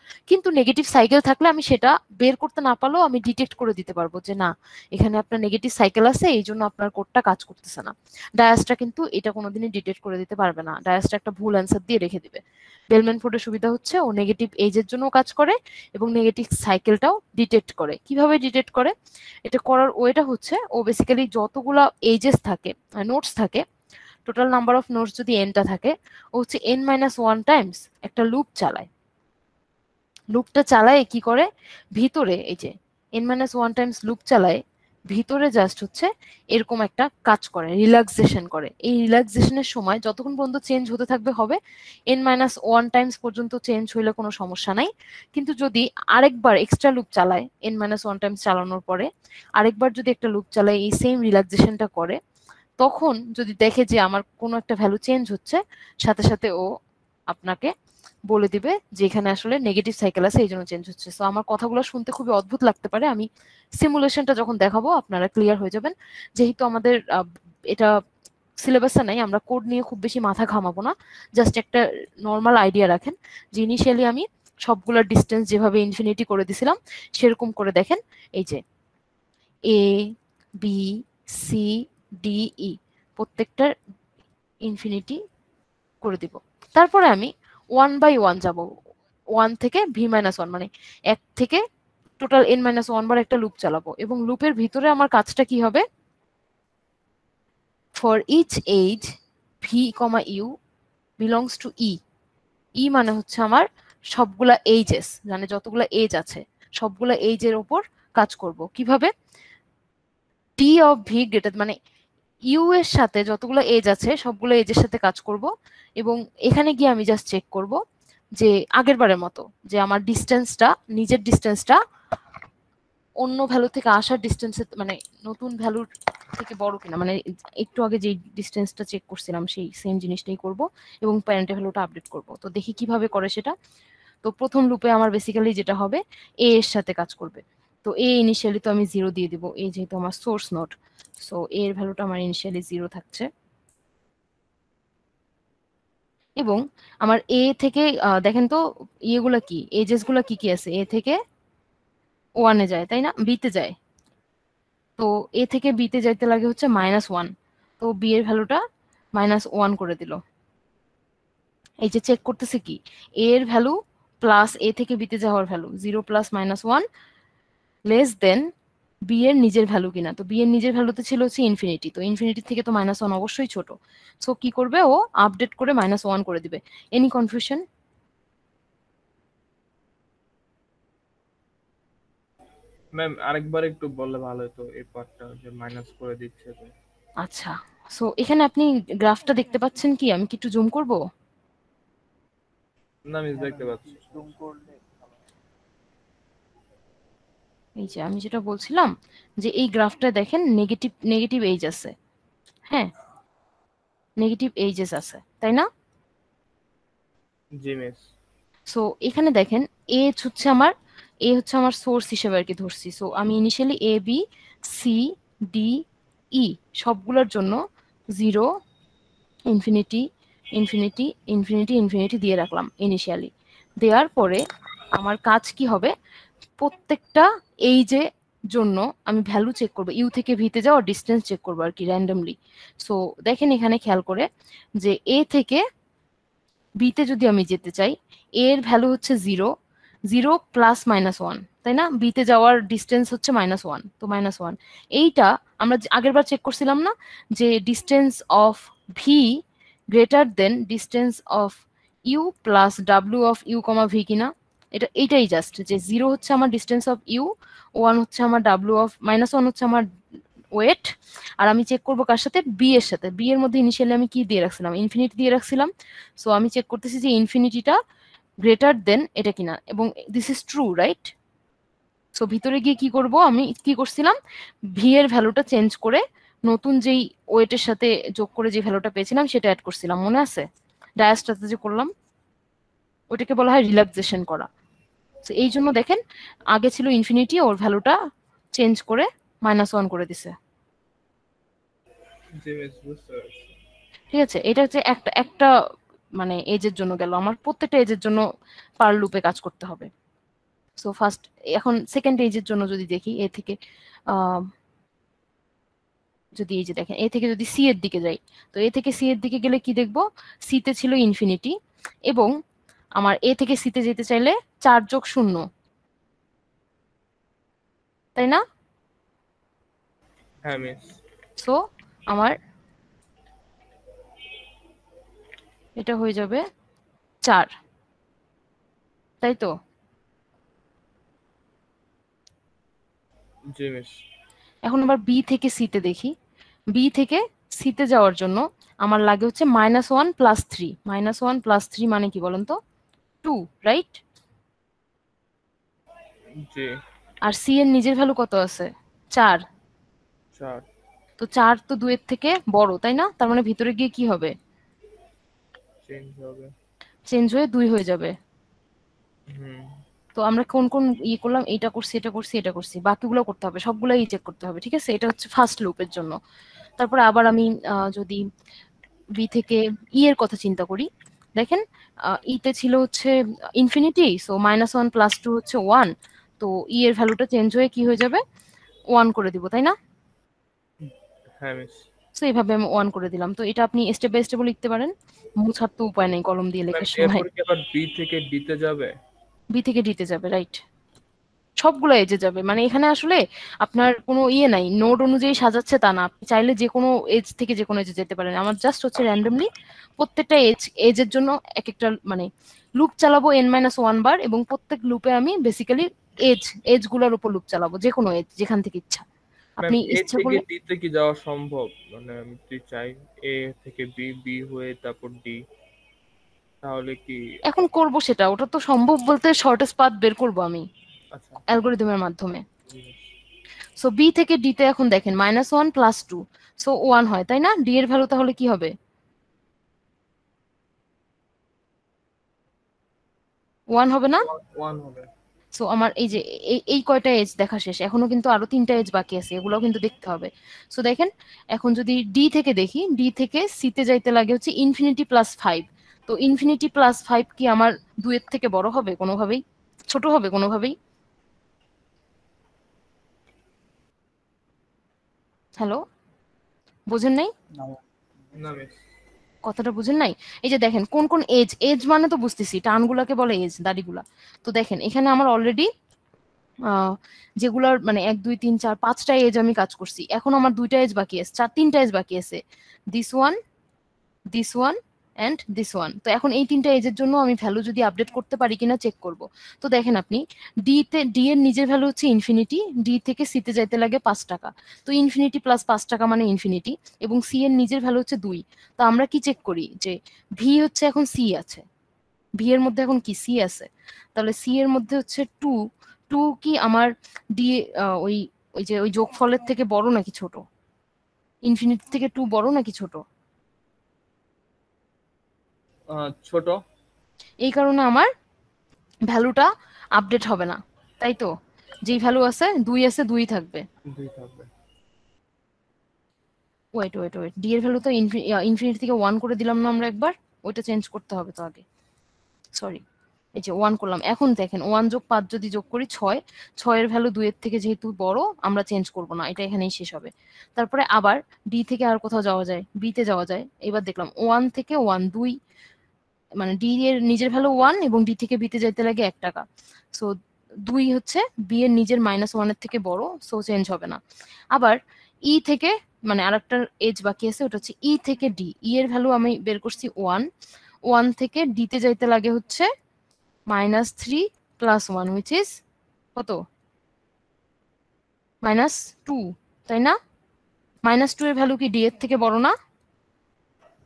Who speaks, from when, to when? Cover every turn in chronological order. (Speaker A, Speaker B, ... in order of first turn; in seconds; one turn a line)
Speaker A: 0.3-18.9
Speaker A: 19.4-23.6
Speaker A: 24.2-28.9
Speaker A: 30.3-41.6
Speaker A: 42.1-52.2
Speaker A: 52.8-56.6
Speaker A: 57.3-57.7
Speaker A: 58.3-63.2
Speaker A: 63.8-67.9
Speaker A: 68.6-78.6
Speaker A: 79.7-80.1
Speaker A: 80.6-83.7
Speaker A: 84.6-85.2
Speaker A: 86.0-88.7
Speaker A: 89.4-91.6
Speaker A: 92.2-95.8
Speaker A: 98.0-99.1
Speaker A: 99.6-100.5
Speaker A: 101.2-102.0
Speaker A: 102.8-109.1
Speaker A: 110.6-111.7
Speaker A: 112.5-115.5
Speaker A: 116.0-117.8
Speaker A: 118.4-121.8
Speaker A: 123.2-133.6
Speaker A: 134.2-143.3
Speaker A: 146.4-148.6
Speaker A: 149.1-151.2
Speaker A: 152.4-153.7
Speaker A: 155.0-158.6
Speaker A: 159.2-160.2
Speaker A: 161.8-166.8
Speaker A: 167.9-168.4
Speaker A: 169.1-173.7
Speaker A: 174.2-177.6
Speaker B: 182.9-186.7
Speaker A: 187.2-191.0
Speaker B: 193.1-194.1
Speaker C: 193.3-195.2
Speaker A: 197.8-201.9
Speaker A: 204.2-205.7
Speaker B: 207.6-208.0
Speaker A: 208.7-210.7
Speaker A: 211.2-215.8
Speaker A: 216.3-217.6
Speaker A: 218.2-218.5
Speaker A: 219.5-220.0
Speaker A: 220.6-223.3
Speaker A: 223.8-224.4
Speaker A: 224.9-225.9
Speaker A: 226.6-234.2
Speaker A: 234.8-235.6
Speaker A: 236.8-239.5
Speaker A: 240.1-249.3
Speaker A: 249.9-259.9
Speaker A: 260.5-260.9
Speaker A: 261.4-267.8
Speaker A: 268.4-271.1
Speaker A: 272.2-274.1
Speaker A: 274.8-280.4
Speaker A: 281.0-281.9
Speaker A: 283.1-284.5
Speaker A: 285.2-286.0
Speaker A: 286.5-288.0
Speaker A: 288.6-290.3
Speaker B: 292.4-293.5
Speaker A: 294.1-295.5
Speaker A: 296.2-298.2
Speaker A: 298.8-299.9
Speaker A: 300.8-303.5
Speaker A: 304.1-304.5
Speaker A: 306.4-311.5
Speaker A: 313.0-315.5
Speaker A: 318.1-318.4
Speaker B: 320.4-321.0
Speaker A: 325.8-326.4
Speaker A: 327.2-327.5
Speaker A: 329.2-329.5
Speaker B: 333.5-334.0
Speaker A: 334.7-336.1
Speaker A: 336.7-342.6
Speaker A: 343.2-344.0
Speaker B: 346.4-346.7
Speaker A: 347.2-349.4
Speaker B: 350.4-350.6
Speaker A: 351.2-354.3
Speaker B: 355.8-356.5
Speaker A: 357.1-358.1
Speaker B: 359.3-359.7
Speaker A: 360.2-366.1
Speaker A: 366.8-368.2
Speaker A: 369.2-378.2
Speaker A: 378.9-379.8
Speaker B: 380.9-381.8
Speaker A: 382.2-387.2
Speaker B: 386.7-388.9
Speaker A: 389.5-390.6
Speaker A: 391.6-399.5
Speaker A: 400.0-402.3
Speaker A: 402.8-409.0
Speaker A: 409.6-410.4
Speaker B: 409.6-415.4
Speaker B: 416.6-417.2
Speaker A: 417.5-420.6
Speaker B: 421.1-421.4
Speaker A: 421.5-422.4
Speaker B: 422.7-423.1
Speaker A: 423.8-428.7
Speaker A: 433.7-434.2
Speaker B: 434.1-435.1
Speaker A: 435.5-449.4
Speaker A: 449.9-450.8
Speaker A: 456.9-457.3
Speaker C: 457.5-458.7
Speaker B: 458.4-458.8
Speaker A: 459.5-465.7
Speaker A: 466.7-472.4
Speaker A: 472.9-473.4
Speaker A: 474.3-491.6
Speaker A: 492.4-495.6
Speaker A: 496.1-500.4
Speaker A: 501.5-503.0
Speaker B: 505.9-506.6
Speaker A: 507.4-508.1
Speaker A: 509.1-511.3
Speaker A: 511.9-513.6
Speaker B: 513.9-514.5
Speaker A: 516.8-521.6
Speaker A: 522.6-522.8
Speaker A: 523.4-535.4
Speaker A: 536.4-540.1
Speaker A: 540.6-544.0
Speaker A: 545.3-550.2
Speaker A: 550.9-552.7
Speaker A: 553.5-555.5
Speaker A: 558.4-560.0
Speaker A: 560.9-562.5